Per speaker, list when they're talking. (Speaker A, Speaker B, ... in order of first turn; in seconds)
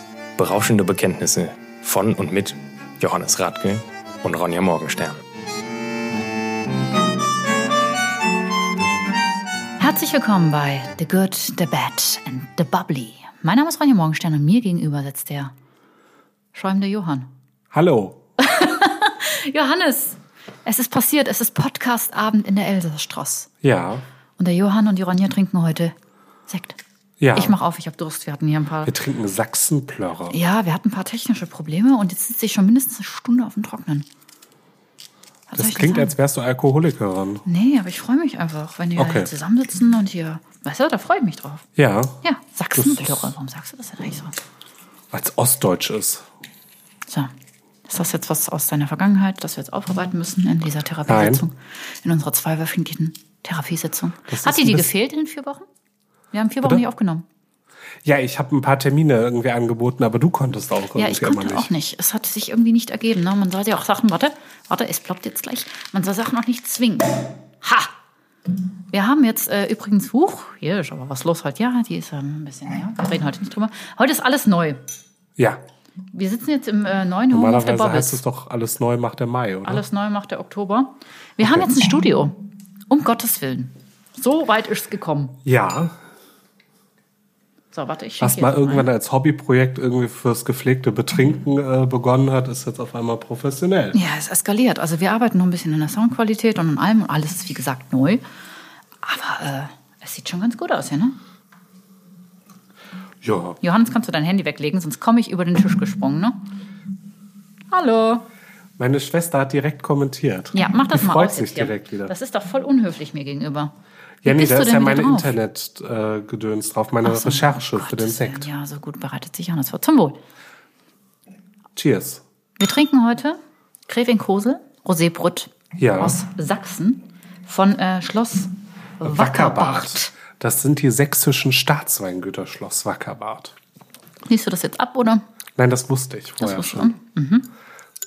Speaker A: 0.4-5.2
Speaker B: 9.8-15.5, 16.5-17.3, 18.4-23.5, 24.4-25.9, 26.5-26.8, 27.3-28.9, 30.3-34.1, 35.5-36.2, 37.5-41.7, 42.2-44.4, 47.9-55.7, 56.3-57.2, 61.0-67.9, 68.9-74.8, 76.1-78.2, 79.7-82.4, 82.9-85.4, 87.7-88.9, 93.9-98.2, 99.0-101.2, 103.6-106.4, 107.7-108.3, 110.5-113.7, 114.2-115.3, 117.0-120.2, 122.6-130.1, 134.3-135.2, 136.4-137.5
Speaker C: 17.7-18.2, 23.6-24.0, 27.2-27.6, 28.9-30.4, 35.6-37.5, 39.0-39.3, 41.8-42.2, 42.8-43.3, 45.1-46.3, 51.1-51.5, 54.3-54.9, 58.0-61.7, 77.3-79.8, 81.4-81.7, 85.5-85.9, 88.2-94.0, 103.2-103.6, 108.8-112.1, 114.2-118.5, 121.8-122.2, 125.8-126.2, 129.0-133.6, 135.6-136.9